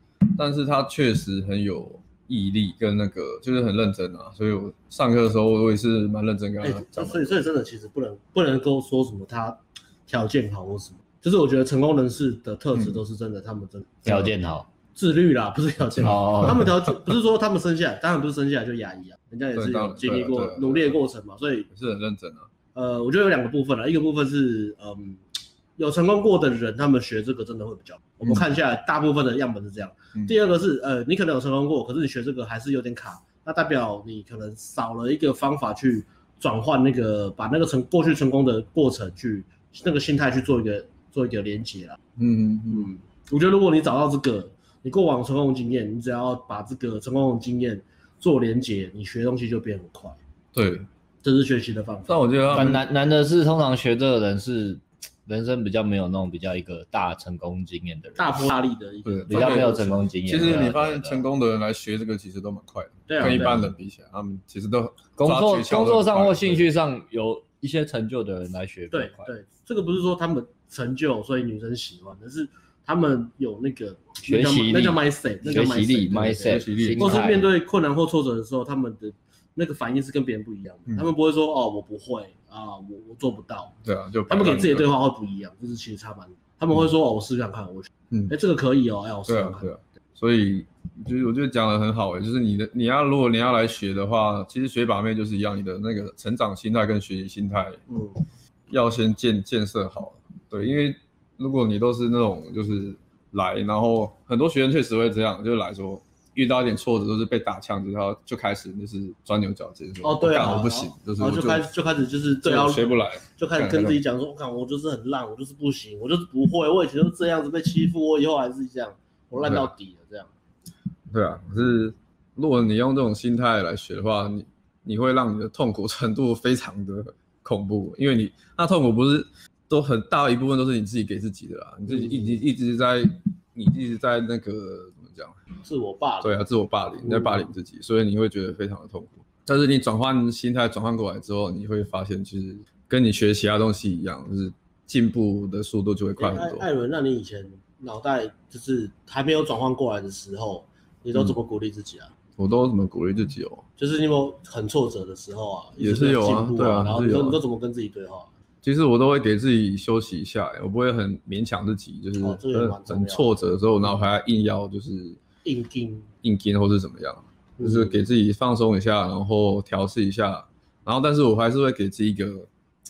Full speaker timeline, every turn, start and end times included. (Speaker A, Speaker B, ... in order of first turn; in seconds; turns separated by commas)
Speaker A: 0.3-7.3, Speaker B: 6.6-14.2, Speaker C: 14.1-14.7, Speaker B: 15.0-21.7, Speaker C: 16.0-16.7, Speaker A: 19.6-21.0, Speaker A: 21.7-22.5, Speaker B: 22.8-25.2, Speaker B: 25.8-42.0, Speaker A: 42.2-42.9, Speaker B: 42.7-50.2, Speaker A: 50.5-50.9, Speaker B: 51.2-52.2, Speaker A: 52.1-52.8, Speaker C: 52.5-58.4, Speaker B: 58.2-60.0, Speaker A: 59.0-59.7, Speaker C: 59.3-61.2, Speaker A: 60.3-66.7, Speaker B: 63.1-63.6, Speaker C: 63.2-63.6, Speaker C: 65.2-69.3, Speaker B: 68.9-83.7, Speaker C: 74.3-77.5, Speaker A: 76.5-77.1, Speaker A: 83.8-84.9, Speaker B: 84.3-89.7, Speaker A: 88.1-88.4, Speaker A: 89.3-97.8, Speaker B: 97.9-98.2, Speaker A: 98.7-111.7, Speaker B: 110.0-120.3, Speaker A: 112.4-114.0, Speaker A: 119.4-119.7, Speaker A: 121.1-135.4, Speaker B: 131.9-132.4, Speaker B: 135.6-136.4, Speaker A: 136.2-146.7, Speaker B: 137.0-137.5, Speaker B: 146.2-152.1, Speaker A: 152.4-153.6, Speaker B: 153.8-158.3, Speaker A: 155.8-157.4, Speaker A: 158.6-165.2, Speaker B: 162.2-163.2, Speaker B: 165.4-166.1, Speaker A: 166.2-172.5, Speaker B: 167.6-168.0